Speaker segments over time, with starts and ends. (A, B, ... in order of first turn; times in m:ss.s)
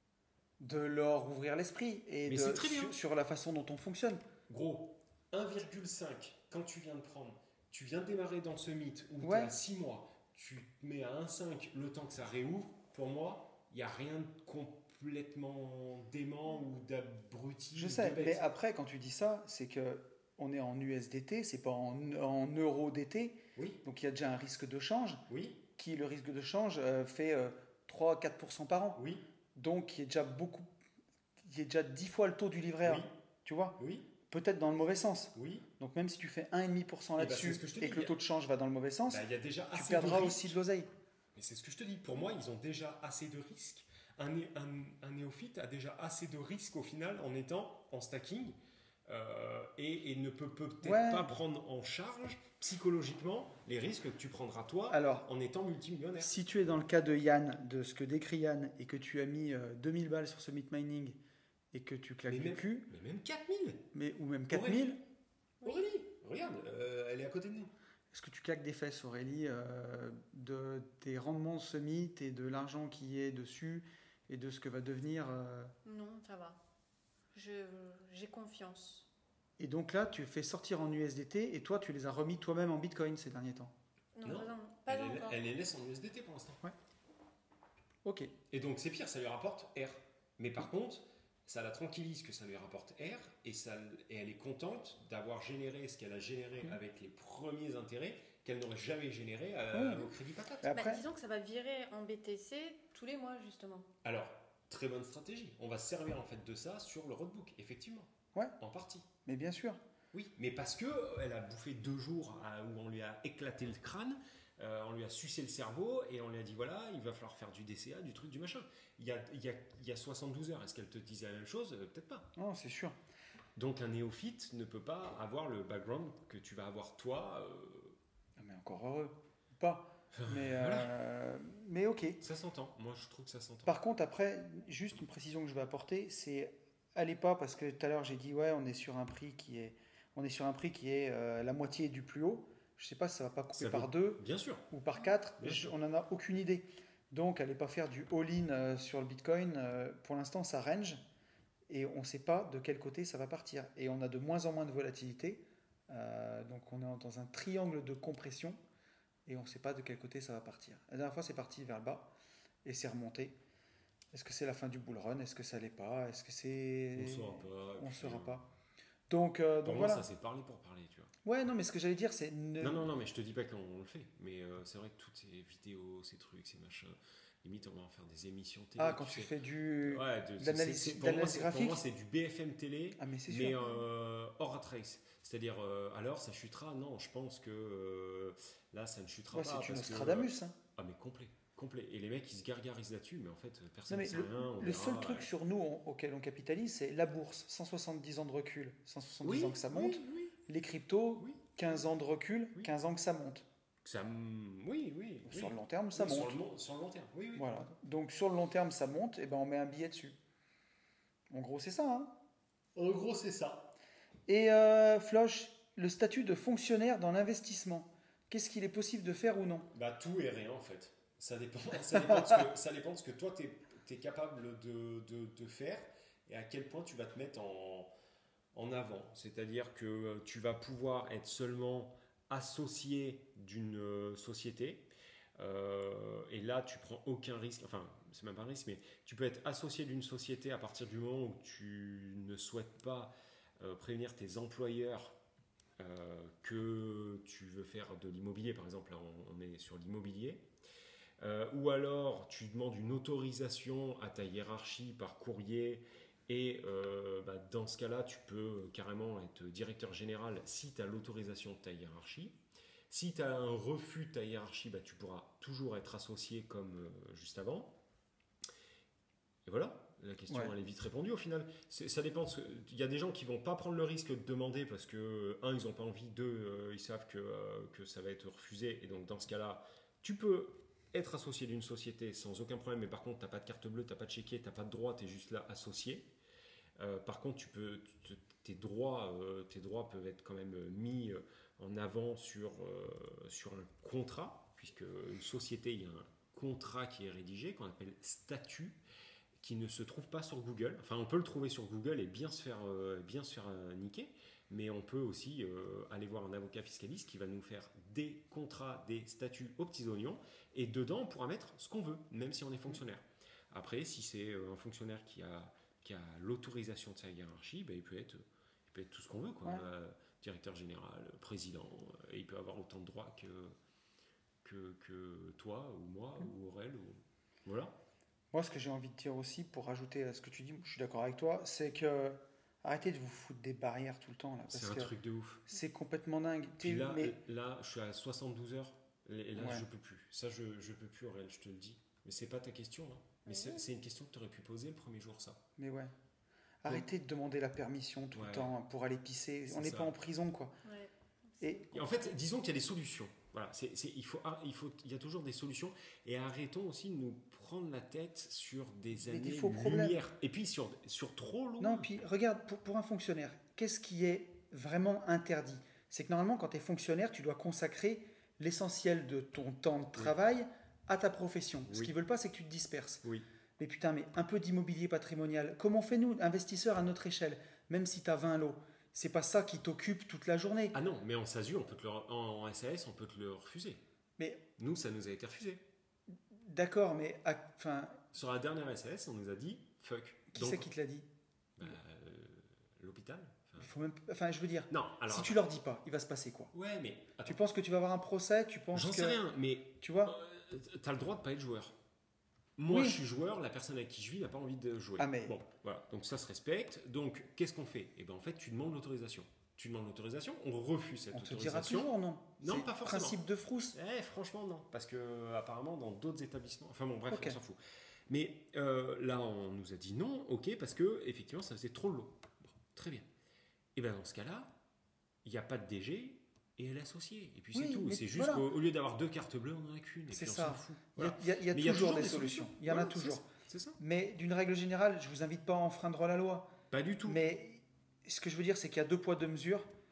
0:00.6-0:04.2 A
0:02.3-0:03.0 B
0:04.5-0:18.5 B
0:09.2-0:09.5 A
0:17.7-0:25.2 A
0:23.6-0:23.8 B
0:25.3-0:25.6 B
0:25.8-0:29.0 A
0:29.0-0:29.2 B
0:29.6-0:30.7 A
0:31.4-0:40.9 A
0:32.8-0:33.1 B
0:33.8-0:34.1 B
0:35.3-0:35.7 B
0:37.2-0:38.2 B
0:39.1-0:40.6 B
0:41.3-0:56.3 B
0:50.8-0:51.3 A
0:54.9-0:55.3 A
0:56.2-1:01.2 A
1:01.7-1:02.9 A
1:02.3-1:03.9 B
1:03.9-1:05.0 A
1:04.5-1:05.0 B
1:05.6-1:07.7 B
1:08.1-1:15.7 A
1:15.8-1:16.6 C
1:17.3-1:19.1 C
1:19.6-1:23.7 A
1:24.1-1:25.4 C
1:24.2-1:26.6 B
1:28.0-1:28.3 A
1:28.5-1:40.8 B
1:39.7-1:40.1 A
1:40.6-1:41.0 A
1:40.7-1:43.9 C
1:44.0-1:49.1 B
1:49.2-1:49.8 A
1:50.1-2:02.3 B
2:02.4-2:03.0 A
2:03.6-2:08.0 B
2:08.4-2:12.2 A
2:10.1-2:10.9 B
2:12.2-2:13.8 B
2:13.6-2:31.0 A
2:23.5-2:24.7 B
2:25.4-2:25.7 B
2:31.7-2:38.6 A
2:39.3-2:42.1 A
2:42.6-2:43.4 A
2:44.1-2:48.5 A
2:47.0-2:48.4 B
2:49.1-2:50.1 A
2:49.6-2:51.1 B
2:51.2-2:52.9 A
2:52.6-2:59.3 B
2:58.8-3:01.8 A
2:59.8-3:15.3 B
3:03.0-3:03.6 A
3:09.3-3:10.6 A
3:13.9-3:23.4 A
3:19.2-3:20.4 B
3:23.8-3:27.6 B
3:25.2-3:26.4 A
3:27.3-3:30.2 A
3:31.3-3:32.1 A
3:32.7-3:33.7 B
3:34.3-3:39.7 A
3:39.7-3:47.9 B
3:48.5-4:05.2 B
4:05.8-4:10.5 B
4:11.2-4:27.8 B
4:29.4-4:46.1 B
4:30.3-4:30.6 A
4:46.8-4:58.8 B
4:59.4-5:23.6 B
5:24.4-5:27.7 B
5:28.3-5:34.9 A
5:34.5-5:35.4 B
5:35.5-5:37.2 A
5:36.6-5:45.4 B
5:39.4-5:39.6 A
5:43.3-5:43.7 C
5:45.6-5:45.9 A
5:46.6-5:50.6 A
5:48.1-5:48.6 B
5:49.5-5:49.9 B
5:50.6-5:50.9 C
5:51.4-5:51.8 A
5:51.7-6:01.9 B
5:59.0-6:00.0 A
6:01.6-6:13.0 A
6:11.7-6:11.9 B
6:13.6-6:20.8 A
6:20.7-6:23.8 B
6:24.2-6:24.4 A
6:24.6-6:25.6 B
6:26.3-6:28.0 A
6:28.1-6:30.7 B
6:30.3-6:31.0 A
6:31.6-6:33.7 B
6:33.6-6:36.5 A
6:34.7-6:35.4 B
6:36.5-6:37.4 B
6:37.2-6:39.2 A
6:38.7-6:41.8 B
6:39.8-6:40.2 A
6:42.6-6:53.2 B
6:42.7-6:43.0 A
6:45.0-6:45.4 A
6:51.1-6:53.8 A
6:53.7-7:03.1 B
6:57.1-6:57.4 A
7:03.7-7:04.5 B
7:05.2-7:13.8 B
7:07.5-7:08.5 A
7:10.1-7:13.3 A
7:13.8-7:16.5 A
7:16.7-7:17.2 B
7:17.0-7:19.7 A